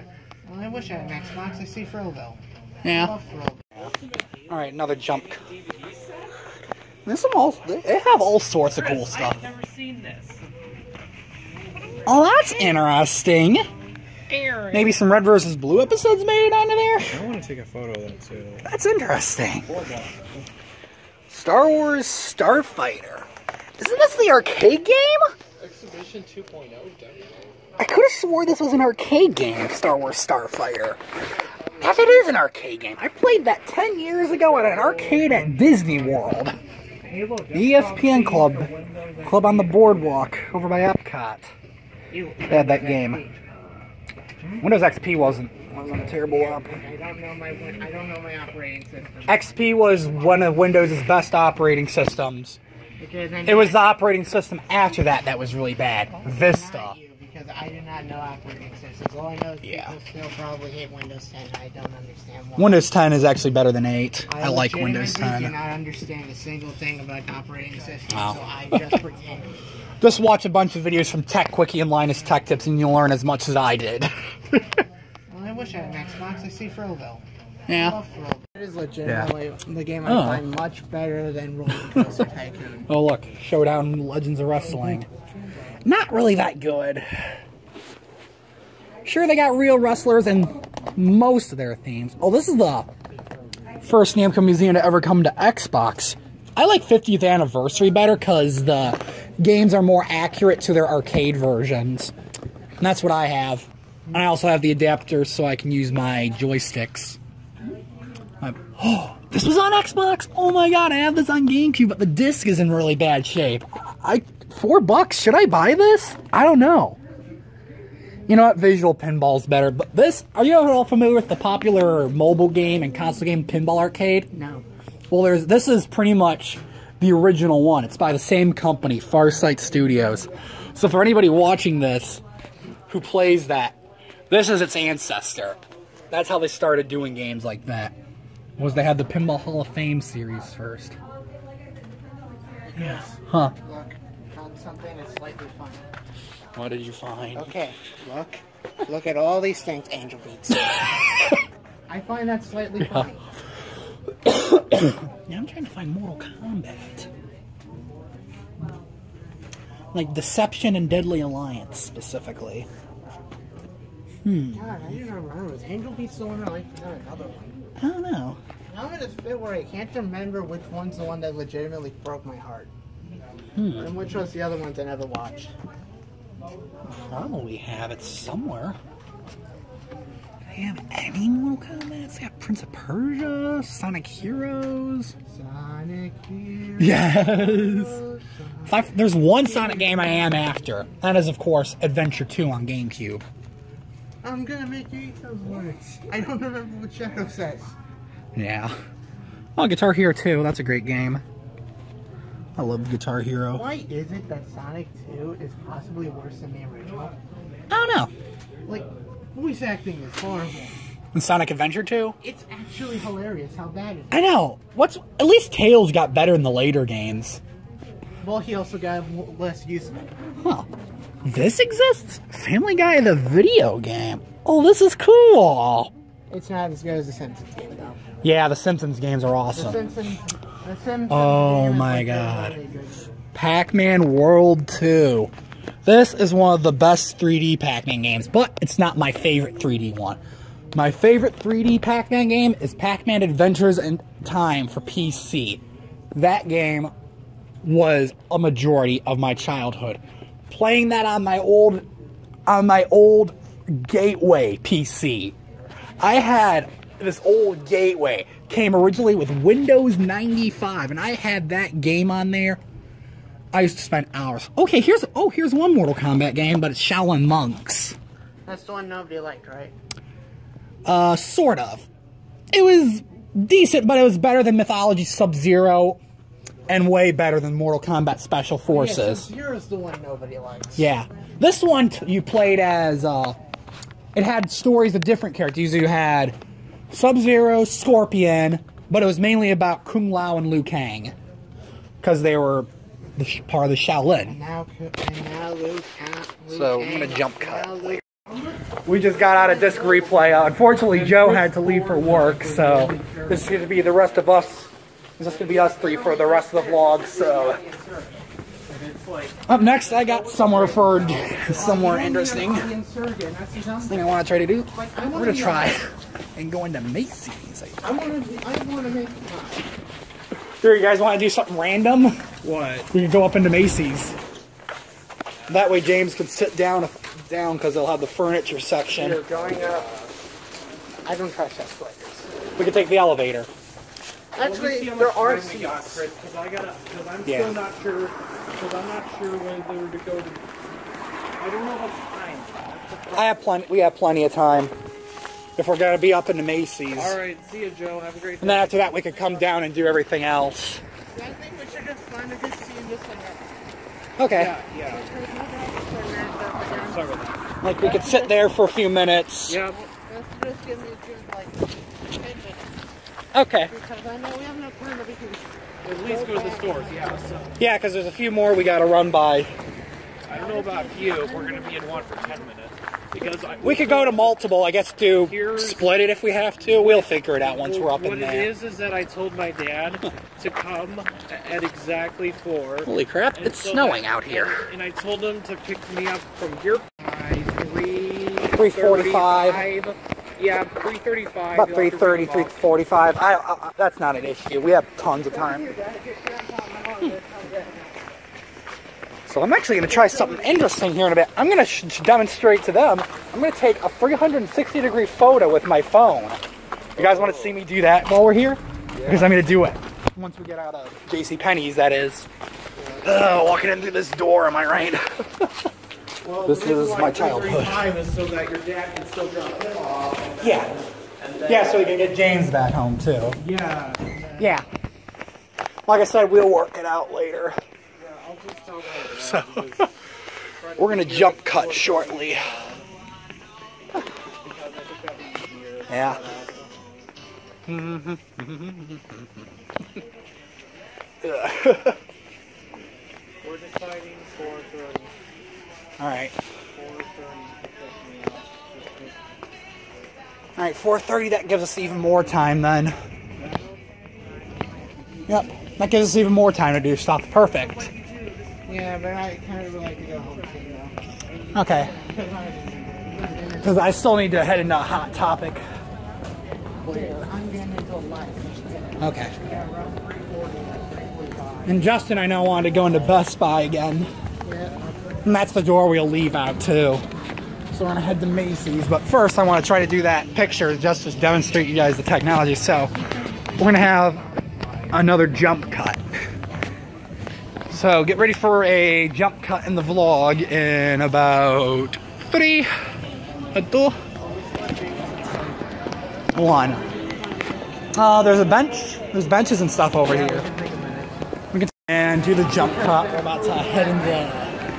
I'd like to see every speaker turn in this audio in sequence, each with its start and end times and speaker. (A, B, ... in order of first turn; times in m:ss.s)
0:00.4-0:03.7 A
0:02.8-0:03.1 B
0:04.3-0:06.3 C
0:04.5-0:05.4 B
0:07.0-0:09.5 B
0:08.7-0:10.4 C
0:12.0-0:13.7 B
0:14.3-0:15.0 C
0:14.7-0:17.2 B
0:17.1-0:18.6 C
0:18.6-0:19.7 B
0:19.7-0:20.4 C
0:21.3-0:23.3 B
0:23.8-0:25.3 B
0:25.6-0:27.4 C
0:27.8-0:31.0 B
0:31.7-0:31.9 A
0:31.8-0:36.6 B
0:34.4-0:35.5 C
0:37.1-0:39.8 C
0:37.5-0:38.0 A
0:37.5-0:41.5 B
0:42.1-0:43.4 A
0:42.5-0:43.2 B
0:44.6-0:46.7 B
0:46.4-0:49.6 A
0:49.3-0:52.6 B
0:53.0-0:53.9 A
0:53.4-0:56.9 B
0:56.1-1:02.9 A
0:59.6-0:59.9 B
1:02.6-1:05.5 B
1:04.3-1:09.5 A
1:08.1-1:08.4 B
1:10.0-1:14.8 B
1:15.3-1:17.2 A
1:17.7-1:18.0 B
1:17.8-1:22.9 A
1:20.0-1:20.4 B
1:22.9-1:25.1 B
1:25.8-1:27.3 B
1:29.0-1:32.9 B
1:33.8-1:42.1 B
1:42.8-1:47.2 B
1:48.4-1:57.0 B
1:58.3-2:04.3 B
2:04.3-2:04.6 A
2:05.1-2:12.2 B
2:12.9-2:13.8 B
2:14.3-2:15.6 B
2:16.1-2:17.9 B
2:18.6-2:21.0 B
2:22.7-2:25.8 A
2:22.8-2:23.5 B
2:26.5-2:27.6 B
2:27.3-2:30.9 A
2:31.9-2:33.2 A
2:32.8-2:33.1 B
2:34.2-2:37.1 B
2:39.9-2:42.7 B
2:44.2-2:44.8 B
2:44.5-2:47.5 A
2:47.8-2:48.4 B
2:48.7-2:52.7 A
2:53.6-2:53.9 B
2:53.7-2:55.5 A
2:56.9-2:58.8 B
3:00.5-3:05.1 B
3:05.3-3:10.2 A
3:06.8-3:08.0 B
3:08.7-3:13.2 B
3:14.2-3:17.7 A
3:18.3-3:18.7 B
3:19.6-3:21.2 B
3:22.6-3:23.6 B
3:23.5-3:27.2 A
3:27.7-3:28.1 B
3:28.6-3:30.8 A
3:31.1-3:32.2 B
3:32.2-3:34.2 A
3:34.1-3:37.4 B
3:38.2-3:40.0 A
3:40.4-3:40.7 B
3:41.2-3:45.9 B
3:46.3-3:48.0 A
3:48.2-3:49.8 B
3:49.5-3:53.1 A
3:51.1-3:52.6 B
3:53.3-3:55.3 B
3:55.8-4:00.2 B
4:00.7-4:05.6 B
4:06.1-4:06.9 B
4:07.6-4:11.8 B
4:12.4-4:15.4 B
4:16.0-4:22.6 B
4:23.5-4:28.0 B
4:28.4-4:29.7 A
4:30.8-4:31.9 B
4:32.5-4:36.0 B
4:36.7-4:39.3 B
4:38.7-4:40.9 A
4:40.8-4:43.4 B
4:44.1-4:46.3 B
4:46.9-4:51.1 B
4:52.0-4:54.4 B
4:54.2-5:00.5 A
4:56.5-4:58.0 B
4:58.8-5:07.6 B
5:00.9-5:02.9 C
5:01.8-5:03.8 A
5:05.3-5:08.2 A
5:08.7-5:11.5 C
5:09.5-5:12.7 B
5:10.3-5:15.8 A
5:13.8-5:17.8 B
5:17.8-5:19.7 A
5:20.6-5:22.2 B
5:22.4-5:22.9 C
5:22.9-5:24.2 B
5:25.5-5:29.2 B
5:28.9-5:29.9 A
5:29.6-5:30.0 C
5:31.0-5:32.3 A
5:32.6-5:33.5 B
5:34.3-5:36.0 A
5:34.4-5:40.4 C
5:37.2-5:37.6 B
5:41.4-5:43.4 C
5:43.1-5:44.7 B
5:45.6-5:47.2 B
5:46.9-5:49.4 C
5:48.4-5:50.8 B
5:51.1-5:53.6 A
5:54.2-5:54.5 B
5:54.2-5:55.0 C
5:54.8-5:57.2 A
5:56.7-5:57.5 C
5:57.6-5:59.6 B
5:57.8-5:58.3 A
5:59.5-5:59.8 C
5:59.6-6:02.8 A
6:03.3-6:03.7 B
6:03.6-6:07.2 A
6:05.8-6:07.6 C
6:07.6-6:09.5 B
6:10.3-6:14.4 C
6:10.3-6:12.3 A
6:13.6-6:18.5 B
6:15.2-6:15.9 C
6:16.6-6:32.5 C
6:22.8-6:24.6 B
6:28.5-6:29.6 B
6:31.5-6:35.7 B
6:35.1-6:38.2 A
6:39.2-6:46.4 B
6:47.0-6:52.3 B
6:47.0-6:47.4 C
6:49.0-6:49.3 C
6:53.0-6:55.7 B
6:56.2-7:01.9 C
6:56.4-6:57.9 B
7:00.4-7:00.8 B
7:01.4-7:03.4 B
7:03.4-7:04.5 C
7:04.4-7:04.6 B
7:05.8-7:07.6 B
7:08.0-7:09.9 C
7:09.1-7:09.8 B
7:10.6-7:12.8 C
7:10.8-7:12.5 B
7:14.4-7:16.7 C
7:15.9-7:16.2 B
7:17.6-7:19.5 B
7:21.2-7:22.0 B
7:23.4-7:25.1 C
7:26.0-7:26.4 B
7:26.7-7:29.2 C
7:30.6-7:33.0 B
7:35.3-7:37.9 B
7:38.6-7:41.0 A
7:41.5-7:41.9 B
7:41.6-7:43.9 A
7:43.6-7:45.6 B
7:46.8-7:47.3 B
7:46.8-7:51.8 A
7:49.0-7:49.3 B
7:51.6-7:54.1 B
7:54.4-7:54.8 A
7:55.2-7:57.0 B
7:57.7-8:02.9 B
8:03.6-8:04.2 B
8:04.9-8:06.0 B
8:07.7-8:12.7 B
8:13.5-8:14.0 B
8:14.2-8:15.8 A
8:16.3-8:16.8 B
8:17.9-8:20.4 B
8:20.0-8:21.1 A
8:20.1-8:20.6 C
8:21.5-8:24.5 B
8:22.6-8:24.3 A